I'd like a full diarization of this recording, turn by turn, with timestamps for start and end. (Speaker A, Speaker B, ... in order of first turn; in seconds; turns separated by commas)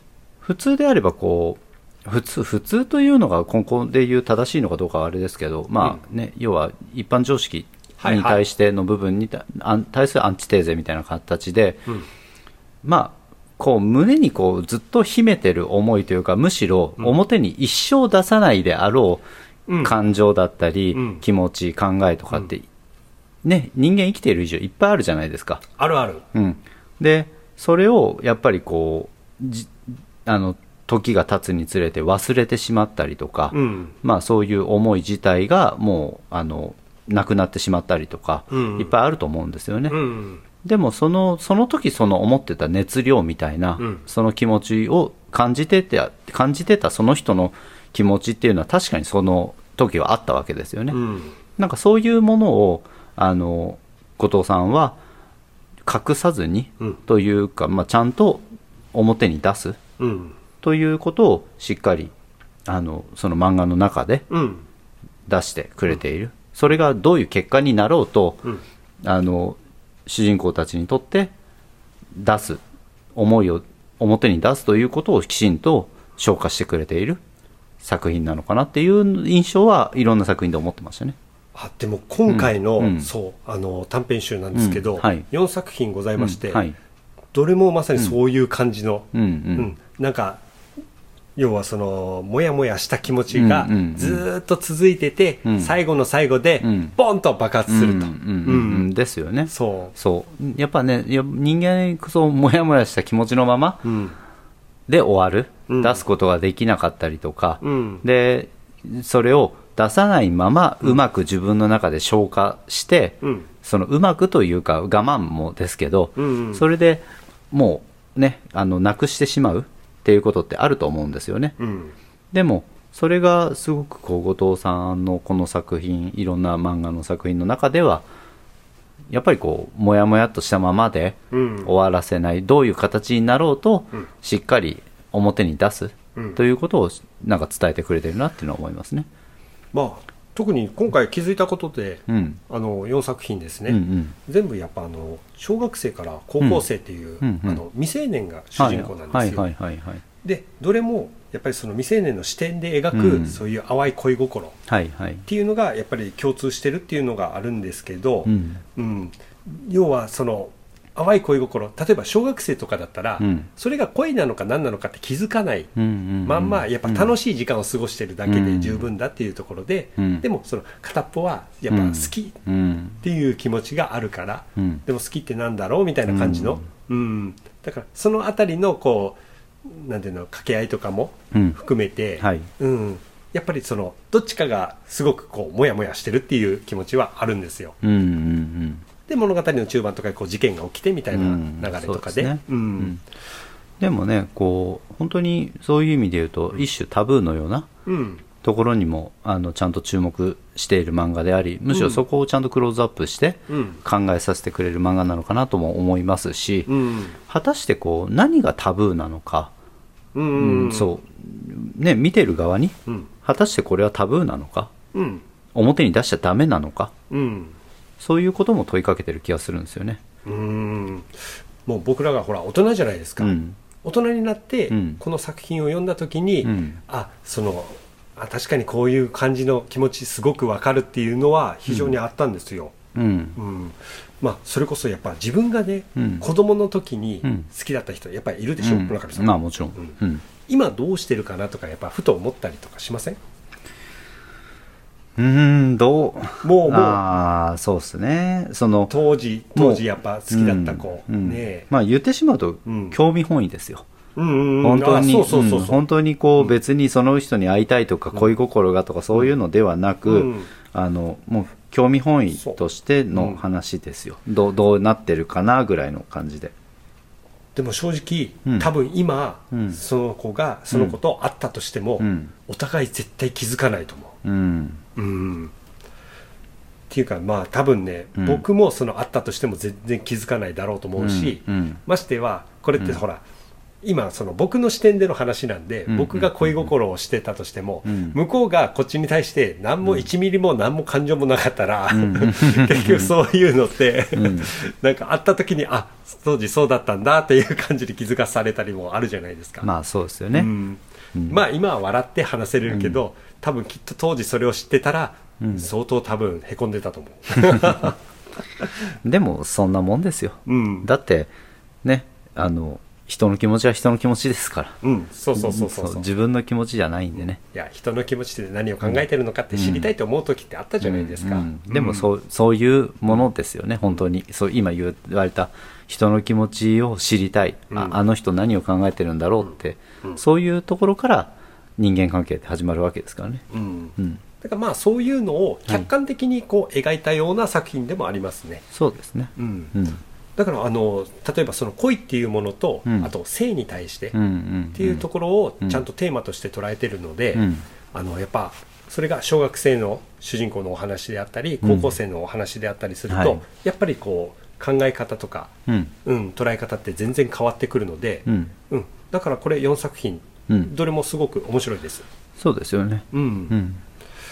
Speaker A: 0.4-11.9, Speaker B: 8.0-8.4, Speaker A: 12.8-19.2, Speaker B: 19.7-19.9, Speaker A: 19.8-22.7, Speaker B: 20.9-21.2, Speaker A: 23.4-25.6, Speaker B: 25.8-26.2, Speaker A: 26.3-40.0, Speaker B: 33.5-34.0, Speaker B: 38.5-38.9, Speaker B: 39.9-40.4, Speaker A: 40.6-51.0, Speaker B: 50.9-51.3, Speaker A: 51.6-55.0, Speaker A: 55.9-59.8, Speaker B: 60.0-60.4, Speaker A: 60.6-62.1, Speaker A: 62.7-64.3, Speaker B: 64.3-64.6, Speaker A: 65.3-68.5, Speaker A: 69.0-71.3, Speaker A: 72.1-72.6, Speaker A: 73.2-77.2, Speaker A: 77.8-81.2, Speaker B: 81.5-86.6, Speaker A: 82.3-83.1, Speaker A: 84.5-85.2, Speaker A: 86.2-86.7, Speaker B: 87.3-90.4, Speaker A: 89.1-89.7, Speaker B: 91.4-98.9, Speaker A: 93.3-94.2, Speaker A: 95.5-95.7, Speaker A: 96.6-96.9, Speaker A: 97.7-103.9, Speaker B: 99.5-99.9, Speaker B: 103.8-104.2, Speaker A: 104.9-121.6, Speaker B: 105.7-106.0, Speaker B: 107.6-108.0, Speaker B: 113.2-113.5, Speaker B: 116.2-116.6, Speaker B: 121.6-121.9, Speaker A: 122.3-128.1, Speaker A: 129.1-139.1, Speaker B: 131.3-131.7, Speaker B: 139.7-149.5, Speaker A: 142.1-142.4, Speaker A: 143.7-144.2, Speaker A: 147.2-147.6, Speaker A: 148.6-150.0, Speaker B: 150.2-154.6, Speaker A: 152.9-153.4, Speaker A: 154.7-155.2, Speaker B: 155.3-165.7, Speaker A: 158.3-158.6, Speaker A: 163.2-163.5, Speaker A: 165.8-167.1, Speaker B: 166.2-172.4, Speaker A: 168.3-168.9, Speaker A: 170.0-170.2, Speaker A: 171.7-173.0, Speaker B: 173.0-187.8, Speaker A: 176.1-176.7, Speaker A: 181.3-181.6, Speaker A: 182.2-182.5, Speaker A: 187.8-188.8, Speaker B: 189.1-193.0, Speaker A: 191.1-193.0, Speaker A: 193.8-197.7, Speaker B: 197.9-198.2, Speaker A: 198.4-206.7, Speaker B: 201.7-202.0, Speaker B: 203.5-203.8, Speaker B: 206.7-207.2, Speaker A: 207.3-209.5, Speaker B: 210.2-210.9, Speaker A: 210.4-214.7, Speaker B: 214.9-215.2, Speaker A: 215.5-216.9, Speaker B: 217.1-217.6, Speaker A: 218.0-220.0, Speaker B: 220.3-221.1, Speaker B: 221.7-232.8, Speaker A: 223.2-223.6, Speaker A: 224.7-225.0, Speaker A: 226.4-226.8, Speaker A: 231.7-231.9, Speaker A: 232.9-233.4, Speaker B: 233.4-243.2, Speaker A: 236.0-236.2, Speaker A: 238.6-240.2, Speaker A: 245.2-248.9, Speaker B: 246.4-247.0, Speaker B: 248.9-251.7, Speaker A: 249.6-253.9, Speaker B: 252.7-253.0, Speaker B: 254.2-255.8, Speaker A: 254.6-266.5, Speaker B: 260.1-260.5, Speaker B: 263.1-263.4, Speaker B: 267.6-274.2, Speaker A: 269.5-269.8, Speaker A: 270.7-271.0, Speaker A: 272.0-272.3, Speaker A: 274.2-274.8, Speaker B: 275.0-275.5, Speaker B: 276.9-283.2, Speaker A: 278.2-278.4, Speaker A: 281.0-281.8, Speaker B: 283.8-299.7, Speaker A: 285.9-286.6, Speaker A: 287.9-288.2, Speaker A: 291.9-293.1, Speaker A: 294.2-294.5, Speaker A: 299.6-300.5, Speaker B: 300.3-308.0, Speaker A: 301.1-301.4, Speaker A: 302.7-303.0, Speaker A: 305.4-305.7, Speaker A: 307.5-307.8, Speaker A: 309.0-311.3, Speaker B: 310.5-310.9, Speaker A: 311.8-314.8, Speaker B: 314.8-316.1, Speaker A: 315.4-317.4, Speaker B: 317.5-322.1, Speaker A: 319.5-319.9, Speaker A: 320.8-333.4, Speaker B: 327.7-328.0, Speaker B: 333.5-338.6, Speaker A: 338.7-340.0, Speaker B: 339.4-339.7, Speaker B: 340.4-344.2, Speaker A: 344.1-345.0, Speaker B: 344.7-355.5, Speaker A: 347.4-347.6, Speaker A: 351.6-351.9, Speaker A: 353.1-353.4, Speaker A: 355.7-355.9, Speaker B: 356.1-362.1, Speaker A: 362.4-363.8, Speaker B: 363.1-363.6